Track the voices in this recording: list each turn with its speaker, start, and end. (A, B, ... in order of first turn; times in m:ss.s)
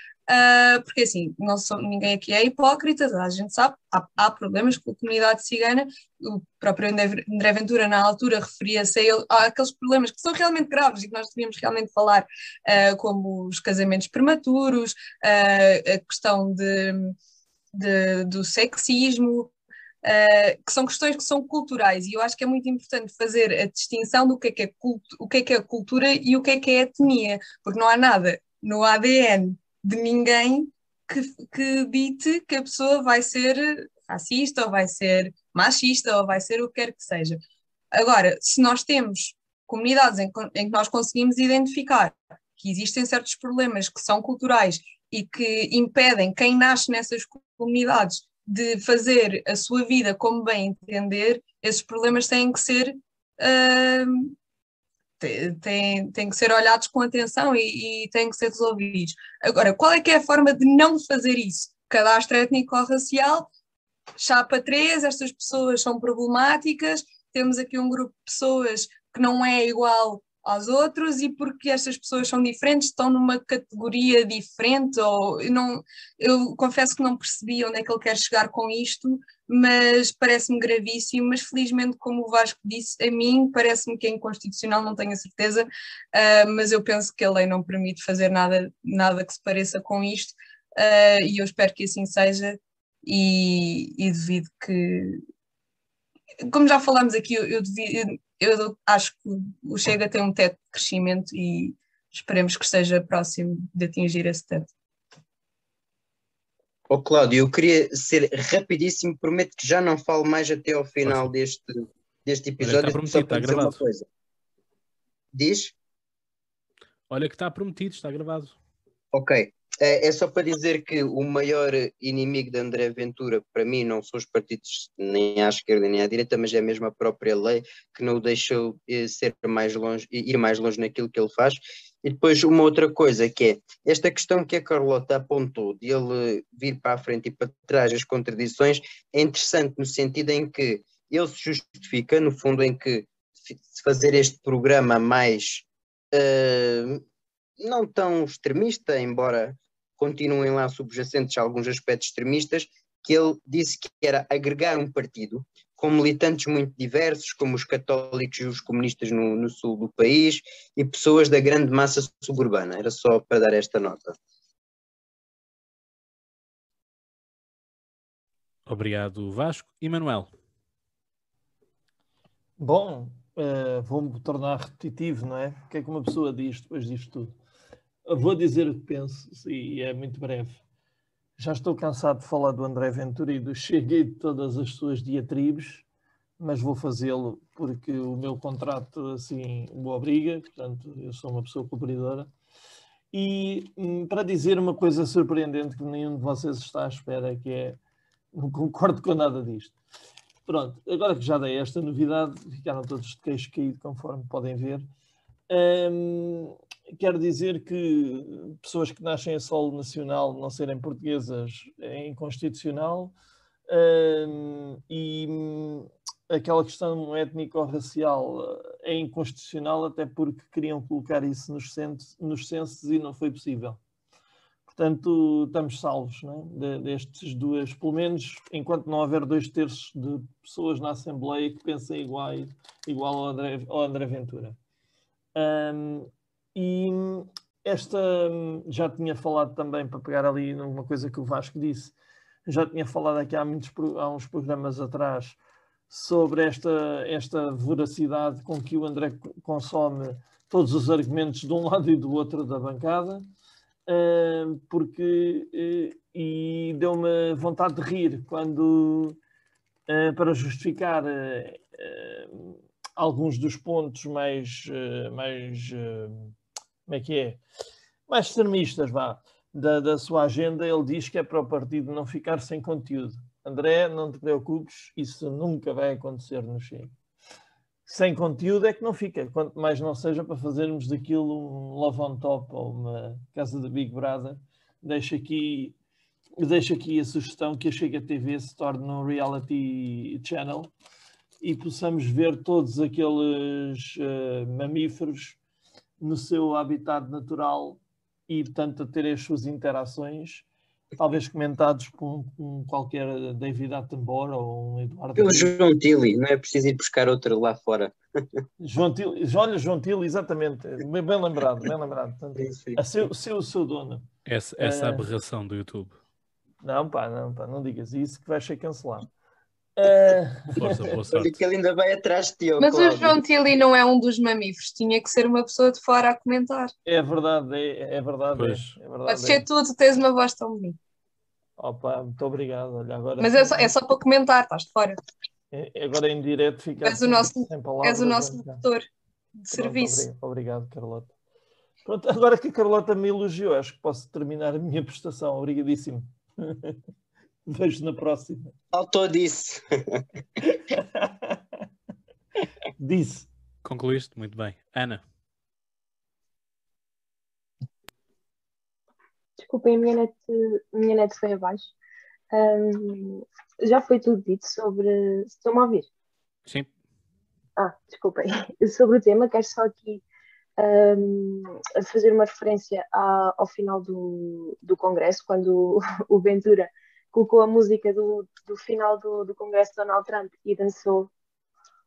0:00.3-0:17.2 A
0:17.7-0:19.5 A
0:20.0-0:37.4 A
0:37.9-0:54.3 A
0:55.2-1:03.5 A
1:04.2-1:35.2 A
1:36.4-1:44.7 A
1:46.9-1:54.1 B
1:51.0-1:51.3 C
1:52.6-1:53.8 C
1:55.3-1:55.8 B
1:57.1-1:58.6 C
1:59.1-2:27.0 B
2:27.6-2:44.2 B
2:48.7-2:50.3 C
2:52.6-2:57.4 D
2:58.1-3:00.6 D
3:01.4-3:05.9 D
3:06.4-3:12.3 D
3:13.1-3:17.8 D
3:18.3-3:19.8 D
3:20.5-3:24.9 D
3:25.5-3:33.2 D
3:33.7-3:43.8 D
3:44.7-3:54.6 D
3:55.4-4:02.0 D
4:02.5-4:05.4 D
4:05.9-4:13.3 D
4:13.9-4:19.2 D
4:19.9-4:26.3 D
4:26.9-4:27.4 D
4:28.1-4:36.9 D
4:37.9-4:45.8 D
4:46.4-4:50.7 D
4:51.4-4:55.4 D
4:56.0-5:00.5 D
5:01.0-5:05.6 D
5:05.2-5:08.4 B
5:08.6-5:14.1 D
5:12.4-5:12.8 B
5:14.3-5:16.0 C
5:14.6-5:15.1 D
5:16.6-5:19.1 D
5:19.8-5:20.9 D
5:20.6-5:21.4 C
5:21.1-5:23.2 B
5:22.6-5:26.7 A
5:26.9-5:29.5 D
5:28.4-5:28.6 C
5:29.1-5:30.8 A
5:31.6-5:33.7 D
5:33.2-5:35.0 A
5:35.5-5:38.6 D
5:36.8-5:38.9 A
5:39.4-5:40.1 A
5:39.5-5:41.1 D
5:41.8-5:46.8 D
5:47.5-5:48.5 D
5:48.7-5:50.1 B
5:50.4-5:51.4 D
5:52.8-5:53.3 D
5:53.6-5:55.0 C
5:59.4-6:01.7 E
6:02.3-6:05.9 E
6:07.6-6:10.0 E
6:10.6-6:21.1 E